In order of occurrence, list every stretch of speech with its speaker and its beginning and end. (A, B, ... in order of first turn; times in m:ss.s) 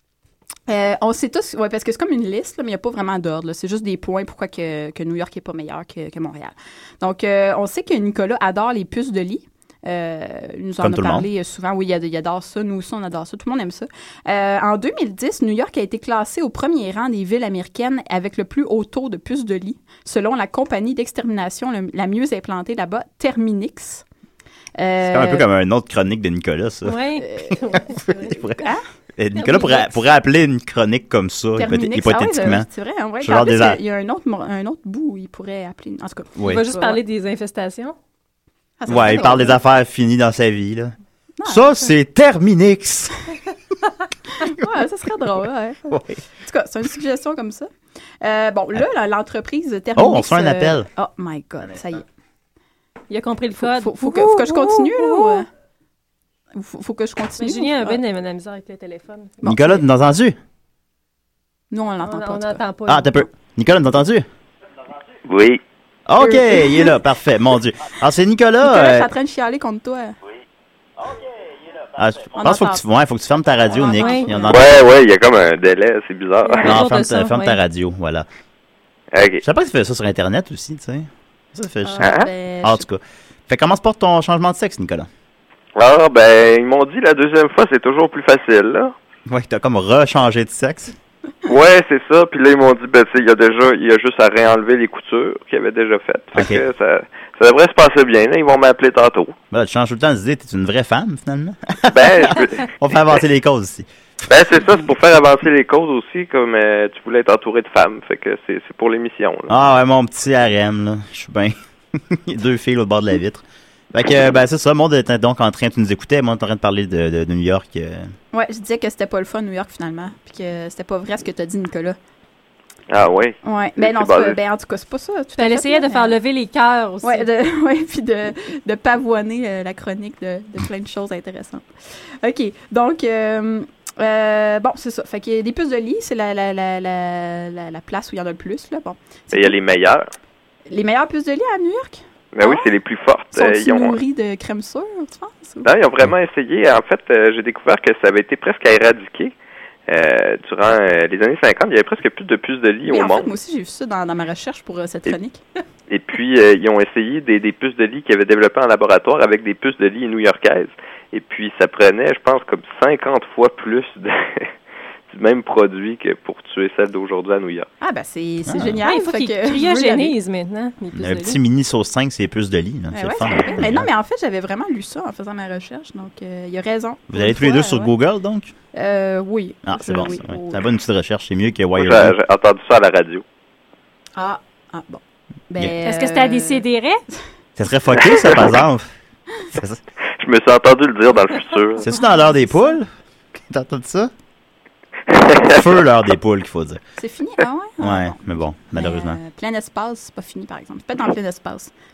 0:00.7-0:24.0 A
0:10.8-0:11.3 B
0:24.8-0:25.4 A
0:25.0-0:28.6 B
0:26.8-0:28.4 C
0:29.2-0:32.7 B
0:29.5-0:29.8 C
0:31.6-0:37.0 A
0:33.2-0:33.8 B
0:36.4-0:36.6 B
0:36.4-0:38.0 C
0:38.8-0:39.6 A
0:38.9-0:43.2 B
0:41.4-0:41.9 A
0:44.4-0:47.7 A
0:45.9-0:46.2 B
0:48.2-0:52.0 A
0:50.0-0:50.9 B
0:53.1-0:55.4 C
0:53.6-0:55.5 A
0:56.5-0:58.0 A
0:57.4-0:59.4 C
0:59.4-0:59.7 A
0:59.4-1:00.4 B
1:01.7-1:02.6 A
1:02.0-1:03.3 C
1:02.9-1:04.3 B
1:05.3-1:05.6 D
1:06.1-1:09.1 B
1:06.2-1:06.9 A
1:08.6-1:10.2 A
1:12.0-1:14.7 B
1:12.4-1:12.8 A
1:13.7-1:14.6 A
1:14.0-1:14.3 C
1:14.5-1:16.7 D
1:16.4-1:17.6 C
1:16.6-1:18.3 B
1:19.1-1:19.4 D
1:19.4-1:25.1 B
1:21.8-1:22.8 A
1:22.0-1:22.3 D
1:25.8-1:29.0 D
1:29.3-1:31.0 B
1:31.5-1:39.4 D
1:36.3-1:36.6 B
1:39.5-1:43.9 B
1:41.9-1:42.6 D
1:44.3-1:49.6 D
1:49.5-1:58.1 B
1:58.3-2:02.0 A
2:02.9-2:04.4 D
2:03.4-2:06.2 A
2:05.4-2:07.3 C
2:07.0-2:19.6 A
2:19.3-2:20.1 D
2:20.7-2:22.7 A
2:22.3-2:24.0 D
2:23.3-2:25.7 A
2:25.6-2:29.3 D
2:29.9-2:33.3 D
2:32.9-2:35.4 A
2:35.9-2:44.5 D
2:45.1-2:47.7 D
2:47.8-2:50.1 A
2:48.5-2:48.8 B
2:48.8-2:51.4 C
2:51.0-2:53.9 B
2:52.9-2:57.9 A
2:57.1-2:58.5 B
2:58.7-3:00.6 A
2:59.6-3:02.2 B
3:01.8-3:03.2 D
3:04.2-3:06.6 A
3:05.8-3:07.0 C
3:07.6-3:08.9 B
3:09.5-3:09.8 B
3:10.2-3:11.9 D
3:11.8-3:12.9 B
3:11.9-3:12.7 A
3:13.5-3:14.1 B
3:15.1-3:15.6 D
3:15.5-3:16.8 B
3:17.0-3:21.7 A
3:17.8-3:19.2 B